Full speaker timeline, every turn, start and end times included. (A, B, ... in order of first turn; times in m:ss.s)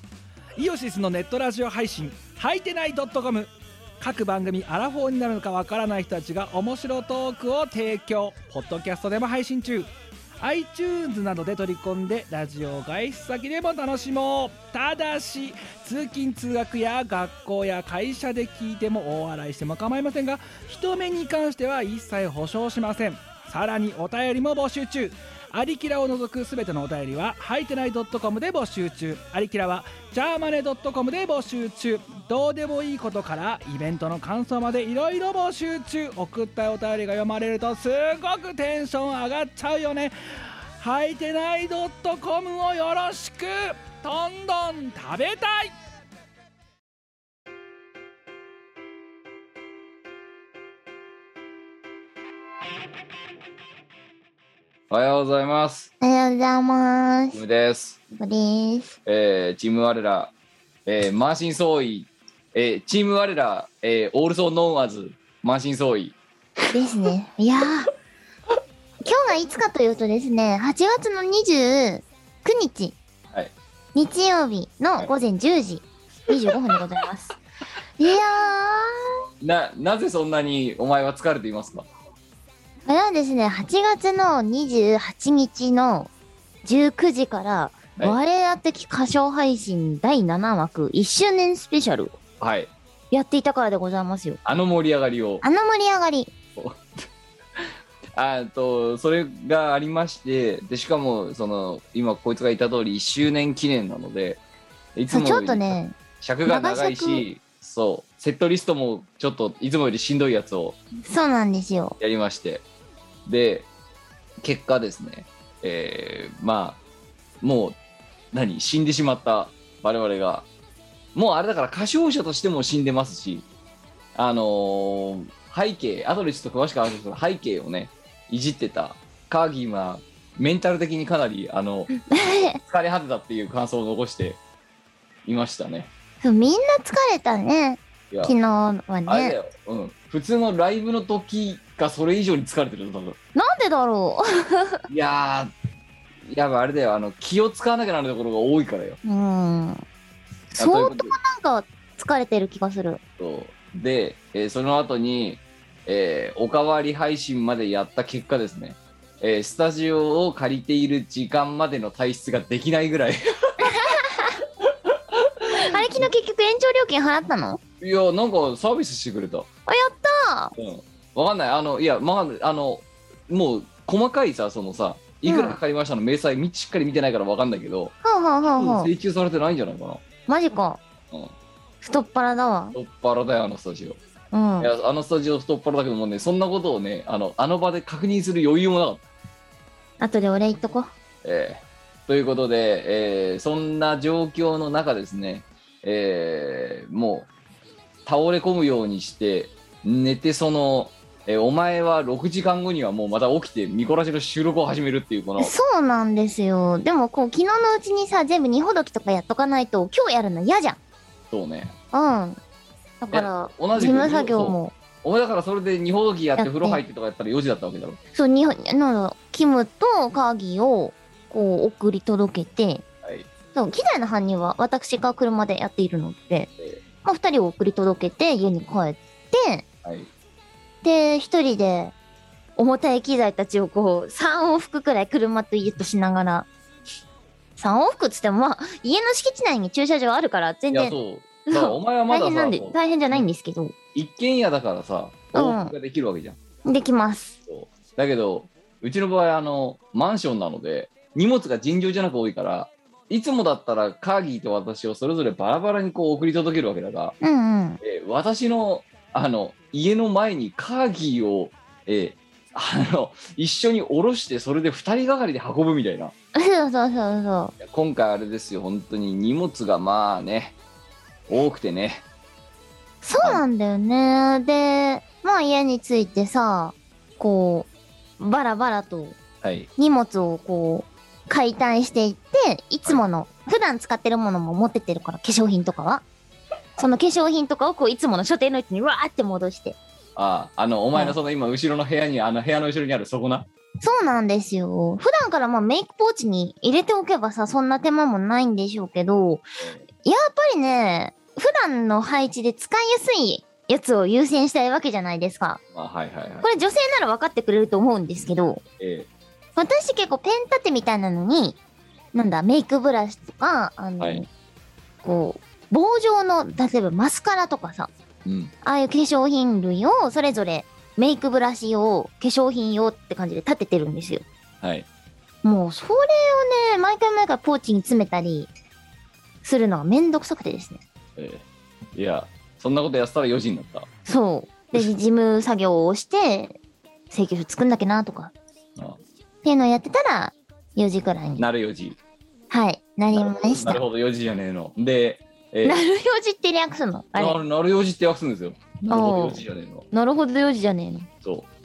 0:00.6-0:09.9 A
0:10.4-0:40.1 A
0:40.8-0:45.7 A
0:54.9-0:55.9 B
0:56.0-0:57.4 C
0:57.3-0:58.0 B
0:58.1-0:58.9 C
0:59.0-1:00.3 B
1:00.8-1:06.2 B
1:06.7-1:07.9 C
1:09.0-1:13.0 C
1:13.9-1:17.4 C
1:18.0-1:18.9 C
1:19.4-1:21.9 B
1:22.9-1:26.1 C
1:26.6-1:32.2 C
1:32.4-1:32.7 B
1:33.1-1:34.4 C
1:34.4-1:35.4 B
1:35.4-1:36.3 C
1:36.6-1:36.9 B
1:37.6-1:44.4 B
1:45.0-1:50.8 B
1:45.1-1:45.9 C
1:46.4-1:47.2 C
1:51.1-1:52.0 C
1:52.0-1:52.6 B
1:53.3-1:53.7 B
1:54.4-1:56.8 B
1:57.4-1:57.8 B
1:58.3-2:00.5 B
2:01.1-2:03.4 B
2:04.1-2:11.9 B
2:12.0-2:12.6 C
2:12.6-2:14.4 B
2:15.2-2:15.9 B
2:16.2-2:19.4 C
2:19.0-2:23.2 B
2:23.4-2:24.8 C
2:24.9-2:25.5 B
2:26.2-2:29.0 B
2:29.0-2:29.8 C
2:30.5-2:33.0 C
2:30.6-2:31.2 B
2:33.2-2:44.0 B
2:43.6-2:44.3 C
2:44.6-2:46.1 B
2:45.5-2:47.6 C
2:47.8-2:49.5 B
2:49.7-2:50.5 C
2:50.6-2:57.9 B
2:55.2-2:55.6 C
2:58.0-2:58.9 C
2:58.6-3:00.0 B
3:00.3-3:00.8 C
3:01.8-3:02.8 C
3:02.7-3:04.0 B
3:04.3-3:04.7 C
3:04.6-3:09.0 B
3:10.0-3:10.9 C
3:11.2-3:17.3 B
3:18.0-3:25.5 B
3:25.4-3:30.8 C
3:31.3-3:31.7 B
3:31.9-3:32.4 C
3:33.0-3:34.7 C
3:33.1-3:38.0 B
3:36.4-3:36.8 C
3:38.1-3:42.8 C
3:43.0-3:43.3 B
3:43.5-3:46.5 C
3:47.0-3:49.6 C
3:49.8-3:50.1 B
3:50.8-3:51.9 C
3:52.6-3:56.5 C
3:57.6-4:01.0 C
4:00.7-4:03.2 B
4:01.5-4:03.7 C
4:03.9-4:06.4 B
4:05.3-4:05.7 C
4:06.6-4:07.4 C
4:07.5-4:17.2 B
4:17.2-4:17.8 C
4:17.8-4:26.1 B
4:26.3-4:27.5 C
4:27.6-4:30.6 B
4:31.3-4:32.0 B
4:33.0-4:39.2 C
4:33.2-4:33.4 B
4:39.4-4:39.7 B
4:39.8-4:46.0 C
4:46.8-4:49.8 C
4:50.2-4:53.5 B
4:53.8-4:59.4 C
5:00.0-5:05.6 C
5:05.7-5:06.5 B
5:06.4-5:08.6 C
5:08.8-5:09.1 B
5:09.6-5:11.6 C
5:12.1-5:14.3 C
5:15.0-5:17.9 C
5:18.2-5:18.5 B
5:18.6-5:24.2 C
5:25.4-5:28.5 C
5:29.4-5:30.8 C
5:31.2-5:33.9 B
5:34.0-5:36.6 C
5:37.1-5:38.3 C
5:39.4-5:41.5 C
5:41.4-5:42.0 B
5:42.5-5:43.8 C
5:43.1-5:45.8 B
5:45.6-5:47.4 C
5:47.1-5:49.8 B
5:48.9-5:49.4 C
5:49.9-5:51.1 C